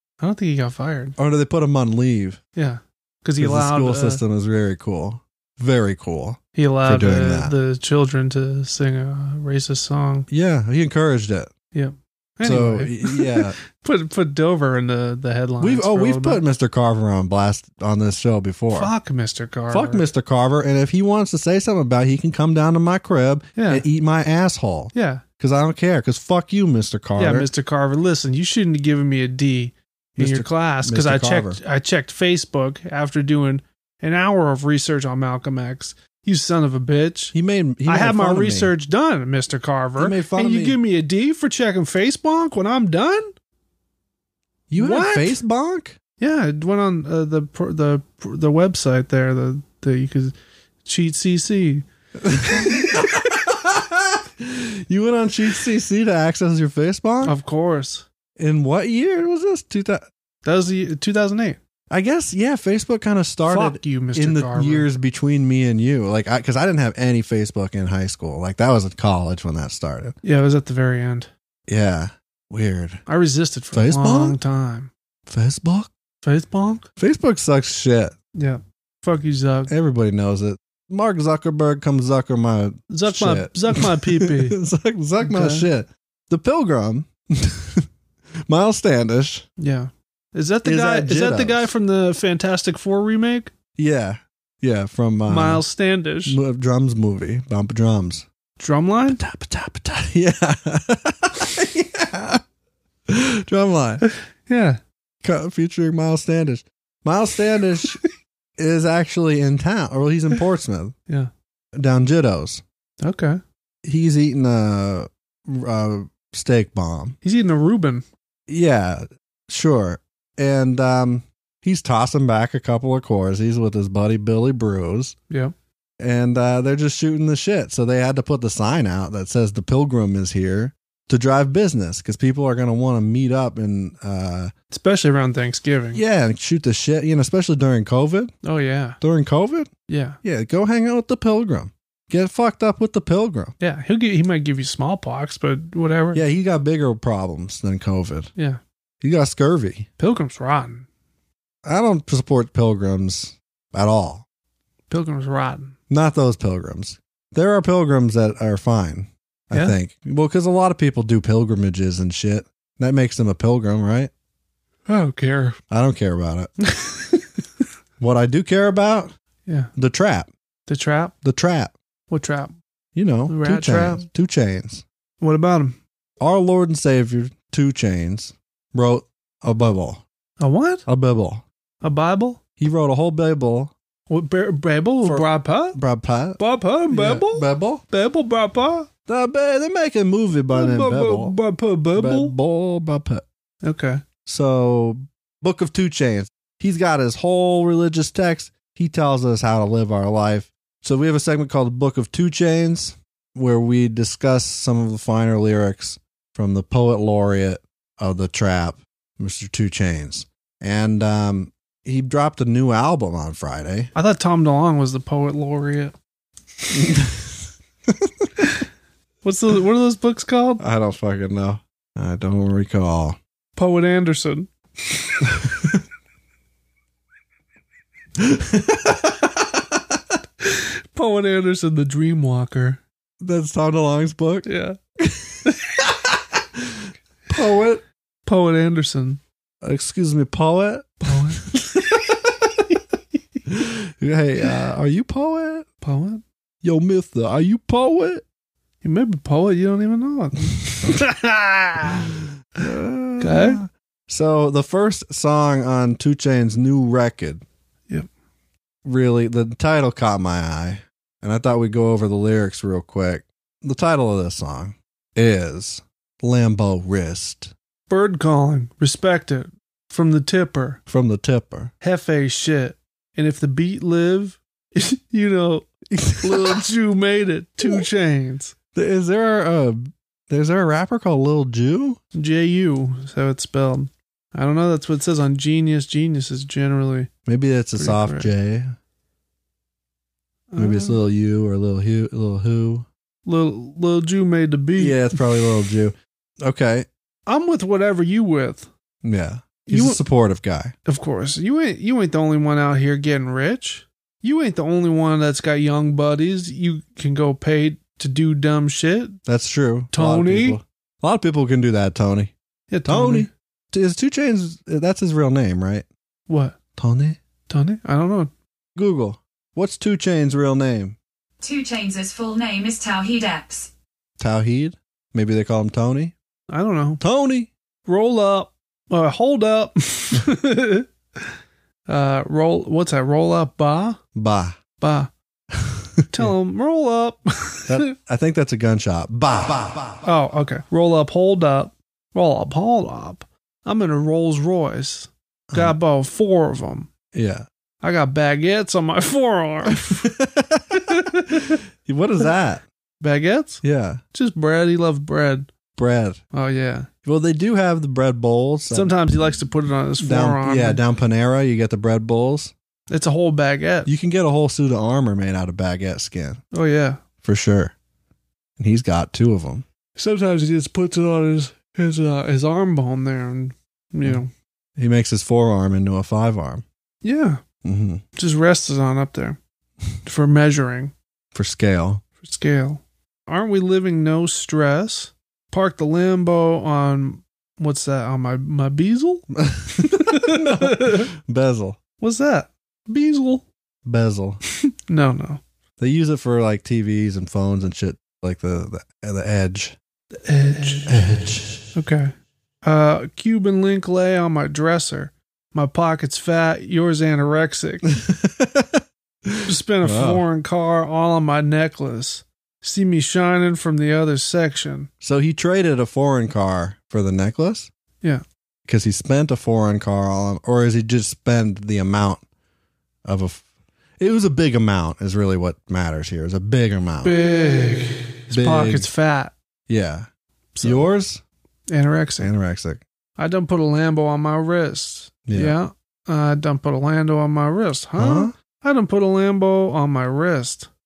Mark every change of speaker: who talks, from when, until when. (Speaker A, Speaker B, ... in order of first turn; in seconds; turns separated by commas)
Speaker A: 0.2-1.2, Speaker B: 1.2-2.4, Speaker A: 2.6-4.2, Speaker B: 3.4-7.5, Speaker A: 6.5-10.3, Speaker B: 10.3-11.5, Speaker A: 11.7-16.4, Speaker B: 12.4-13.6, Speaker B: 15.6-18.9, Speaker A: 18.7-20.1, Speaker B: 19.7-27.5, Speaker A: 23.6-23.9, Speaker A: 24.9-25.2, Speaker A: 27.2-37.4, Speaker B: 30.2-31.6, Speaker B: 37.3-38.7, Speaker A: 37.9-43.3, Speaker B: 40.0-40.8, Speaker B: 44.7-46.0, Speaker A: 44.8-45.4, Speaker A: 46.2-51.9, Speaker B: 52.2-57.4, Speaker A: 52.4-53.1, Speaker A: 57.2-58.1, Speaker B: 58.4-60.1, Speaker A: 60.4-61.6, Speaker B: 61.9-70.2, Speaker A: 63.5-64.9, Speaker A: 70.2-71.3, Speaker B: 71.7-73.0, Speaker A: 73.1-74.9, Speaker B: 73.7-74.4, Speaker B: 75.3-75.9, Speaker A: 76.2-76.9, Speaker B: 77.0-78.2, Speaker A: 78.3-79.7, Speaker B: 79.7-87.9, Speaker A: 82.9-84.6, Speaker A: 85.2-85.7, Speaker B: 88.5-89.5, Speaker A: 89.6-93.5, Speaker B: 90.6-91.7, Speaker B: 93.8-95.6, Speaker A: 95.3-96.4, Speaker B: 96.2-98.3, Speaker A: 98.6-99.2, Speaker B: 99.1-102.4, Speaker B: 103.1-104.0, Speaker A: 104.0-104.8, Speaker B: 105.2-108.0, Speaker B: 108.6-111.0, Speaker B: 111.8-112.6, Speaker A: 113.0-113.4, Speaker B: 113.8-117.2, Speaker A: 117.2-118.0, Speaker B: 118.5-125.2, Speaker B: 126.0-134.5, Speaker A: 134.7-136.0, Speaker B: 135.9-138.3, Speaker A: 138.4-139.0, Speaker B: 139.0-139.7, Speaker A: 139.9-140.2, Speaker B: 140.2-143.6, Speaker A: 143.6-146.2, Speaker B: 146.1-148.3, Speaker B: 149.0-149.9, Speaker A: 150.0-150.9, Speaker B: 151.7-154.2, Speaker A: 154.9-155.8, Speaker B: 155.9-164.1, Speaker A: 164.9-165.6, Speaker B: 165.7-166.5, Speaker A: 166.6-167.2, Speaker B: 168.0-169.1, Speaker B: 169.8-170.3, Speaker A: 170.7-171.1, Speaker B: 171.2-171.7, Speaker A: 172.1-172.6, Speaker B: 172.9-174.8, Speaker A: 173.3-174.0, Speaker A: 175.2-175.8, Speaker B: 176.2-180.0, Speaker A: 180.4-180.8, Speaker B: 180.9-181.4, Speaker A: 181.8-182.4, Speaker B: 182.6-183.7, Speaker A: 184.1-185.8, Speaker B: 185.0-187.8, Speaker A: 186.4-188.9, Speaker B: 189.1-191.4, Speaker A: 190.5-192.3, Speaker B: 191.9-193.2, Speaker A: 193.6-194.0, Speaker B: 194.3-213.9, Speaker A: 213.9-215.9, Speaker B: 216.7-217.4, Speaker B: 217.9-218.3, Speaker A: 219.2-220.6, Speaker B: 220.6-223.2, Speaker A: 223.6-225.2, Speaker B: 225.4-225.7, Speaker B: 228.2-229.8, Speaker A: 230.4-232.8, Speaker B: 233.2-234.5, Speaker A: 234.5-234.8, Speaker B: 235.0-237.8, Speaker A: 238.2-239.2, Speaker B: 239.6-242.2, Speaker A: 241.1-241.5, Speaker B: 243.5-245.7, Speaker A: 245.8-246.2, Speaker B: 246.6-248.2, Speaker A: 248.8-252.1, Speaker B: 252.6-257.4, Speaker A: 253.2-253.6, Speaker B: 258.9-267.5, Speaker A: 267.9-270.8, Speaker B: 270.9-271.7, Speaker A: 271.8-278.5, Speaker B: 275.9-276.6, Speaker B: 278.7-282.0, Speaker A: 282.1-287.1, Speaker B: 287.3-288.7, Speaker A: 287.8-288.3, Speaker A: 290.5-291.0, Speaker B: 290.6-292.9, Speaker A: 293.3-295.2, Speaker B: 294.8-296.9, Speaker A: 297.3-298.7, Speaker B: 299.0-300.7, Speaker A: 299.7-300.0, Speaker A: 300.9-309.2, Speaker B: 309.3-312.3, Speaker A: 309.9-310.6, Speaker A: 312.7-313.3, Speaker B: 312.9-315.9, Speaker A: 316.3-316.6, Speaker B: 316.8-317.2, Speaker A: 317.5-318.3, Speaker B: 318.8-321.0, Speaker C: 321.4-323.7, Speaker B: 324.2-326.1, Speaker A: 326.5-327.0, Speaker B: 327.0-327.5, Speaker A: 327.9-331.3, Speaker A: 331.9-334.0, Speaker B: 334.1-334.6, Speaker A: 334.8-335.1, Speaker B: 335.5-336.3, Speaker A: 336.1-337.9, Speaker B: 337.7-340.0, Speaker A: 340.0-346.9, Speaker B: 345.5-345.8, Speaker B: 347.1-347.5, Speaker A: 347.8-350.1, Speaker B: 349.9-352.6, Speaker A: 350.8-351.5, Speaker A: 353.0-353.6, Speaker B: 353.6-354.0, Speaker A: 354.1-355.5, Speaker B: 355.7-356.2, Speaker A: 356.3-356.9, Speaker B: 357.1-358.9, Speaker A: 358.7-360.8, Speaker B: 360.0-362.5, Speaker A: 362.9-363.9, Speaker B: 363.9-366.4, Speaker A: 366.5-367.0, Speaker B: 367.2-367.7, Speaker B: 368.6-369.6, Speaker A: 370.0-374.3, Speaker B: 374.8-376.6, Speaker A: 377.0-377.4, Speaker B: 377.6-378.0, Speaker A: 378.2-379.4, Speaker A: 380.1-380.9, Speaker B: 381.3-382.0, Speaker A: 382.2-389.3, Speaker B: 389.3-391.8, Speaker A: 389.8-391.1, Speaker A: 392.0-393.4, Speaker B: 393.9-394.4, Speaker A: 394.9-395.4, Speaker B: 395.8-399.8, Speaker A: 400.2-401.0, Speaker B: 400.9-401.6, Speaker A: 401.8-407.9, Speaker B: 407.9-410.2, Speaker A: 409.5-414.9, Speaker B: 415.0-417.7, Speaker B: 418.7-422.2, Speaker B: 423.1-423.4, Speaker B: 424.0-427.1, Speaker A: 427.0-429.3, Speaker B: 428.3-428.9, Speaker B: 429.7-430.1, Speaker A: 430.6-430.9, Speaker B: 430.6-431.2, Speaker A: 431.7-432.3, Speaker B: 432.2-432.8, Speaker A: 433.2-440.7, Speaker B: 435.3-435.6, Speaker B: 438.0-438.3